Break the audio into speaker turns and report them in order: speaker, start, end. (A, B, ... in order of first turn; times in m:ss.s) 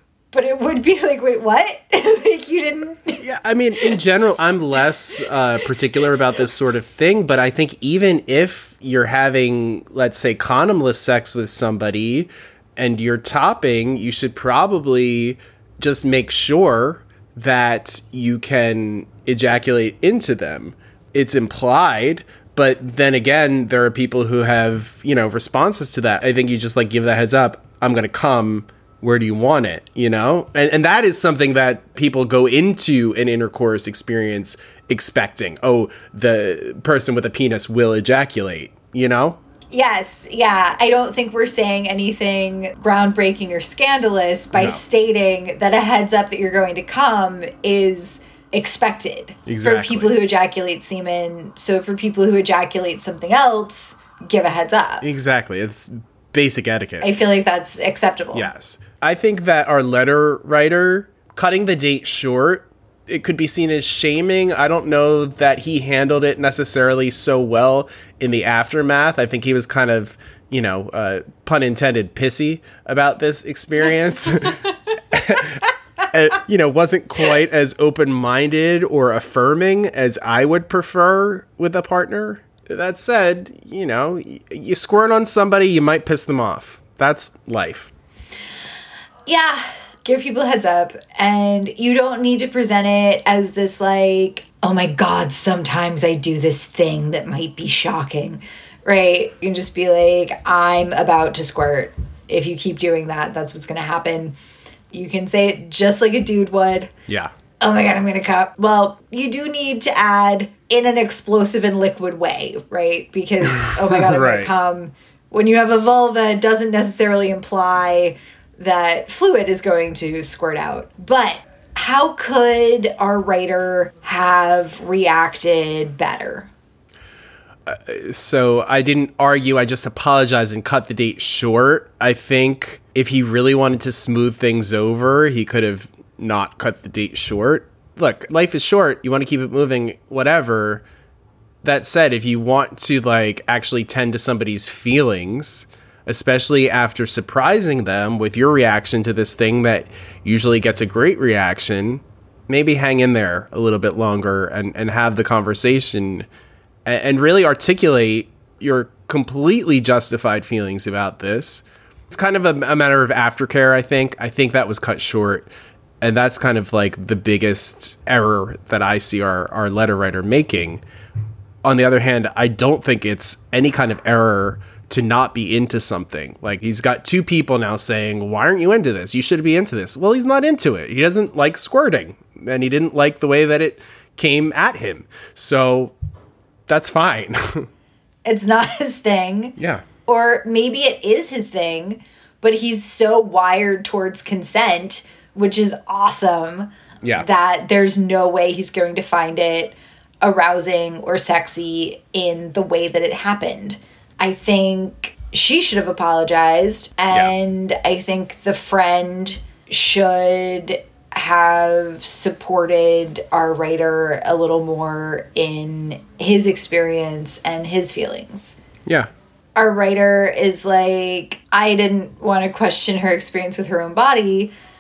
0:00.3-0:03.2 A
0:03.2-0:39.4 B
0:39.7-0:55.0 A
0:44.5-0:44.8 B
0:49.4-0:50.2 B
0:55.0-0:57.1 B
0:57.0-0:58.5 A
0:58.3-1:27.9 B
1:29.3-1:44.4 A
1:44.9-1:46.9 A
1:47.6-2:06.5 A
1:53.5-1:54.5 B
2:07.7-2:20.8 B
2:21.6-2:36.2 B
2:36.9-2:45.5 B
2:46.0-2:50.8 B
2:51.6-3:05.9 B
3:06.7-3:07.7 B
3:08.2-3:09.5 A
3:09.6-3:09.8 B
3:10.0-3:38.6 A
3:39.6-3:44.5 A